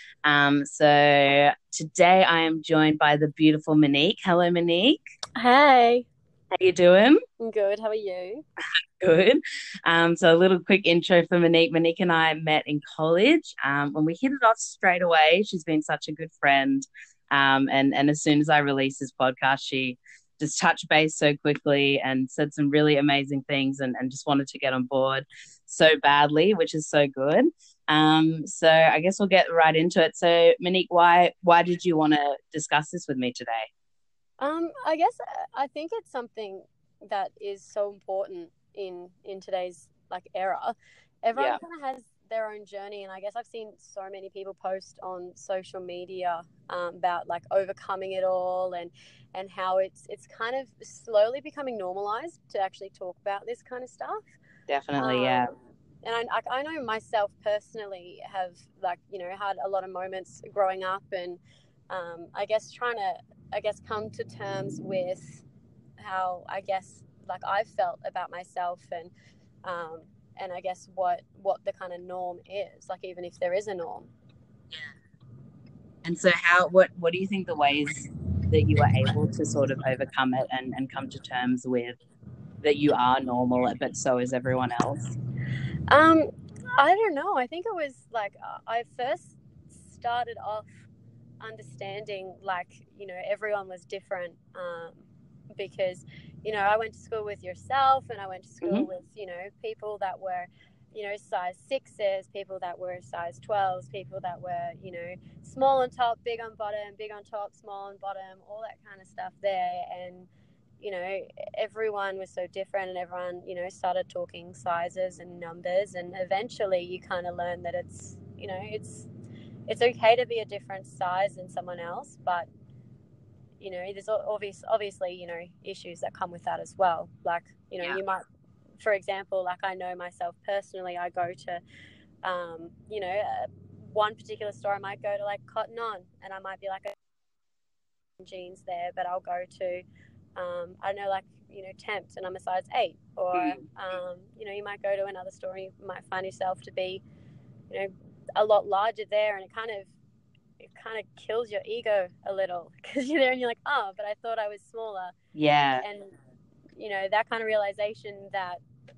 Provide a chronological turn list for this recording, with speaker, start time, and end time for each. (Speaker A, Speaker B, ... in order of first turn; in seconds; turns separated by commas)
Speaker A: 0.2-5.0, Speaker B: 5.3-6.1, Speaker A: 6.5-7.2, Speaker B: 7.4-8.4, Speaker A: 9.0-33.7, Speaker B: 34.4-54.3, Speaker A: 41.4-41.6, Speaker A: 54.7-55.5, Speaker B: 55.0-55.5, Speaker B: 56.0-65.4, Speaker B: 66.0-69.1, Speaker B: 69.6-74.1, Speaker A: 76.0-82.0, Speaker A: 82.6-85.1, Speaker B: 85.9-90.7, Speaker B: 91.4-95.0, Speaker B: 95.5-110.3, Speaker B: 110.8-119.1, Speaker B: 119.7-122.5, Speaker B: 123.6-128.2, Speaker B: 128.8-131.6, Speaker B: 132.2-136.9, Speaker B: 138.2-139.8, Speaker B: 140.3-147.0, Speaker A: 143.3-143.6, Speaker B: 147.7-149.9, Speaker B: 150.6-155.1, Speaker A: 155.3-155.8, Speaker B: 155.8-156.1, Speaker B: 156.8-158.6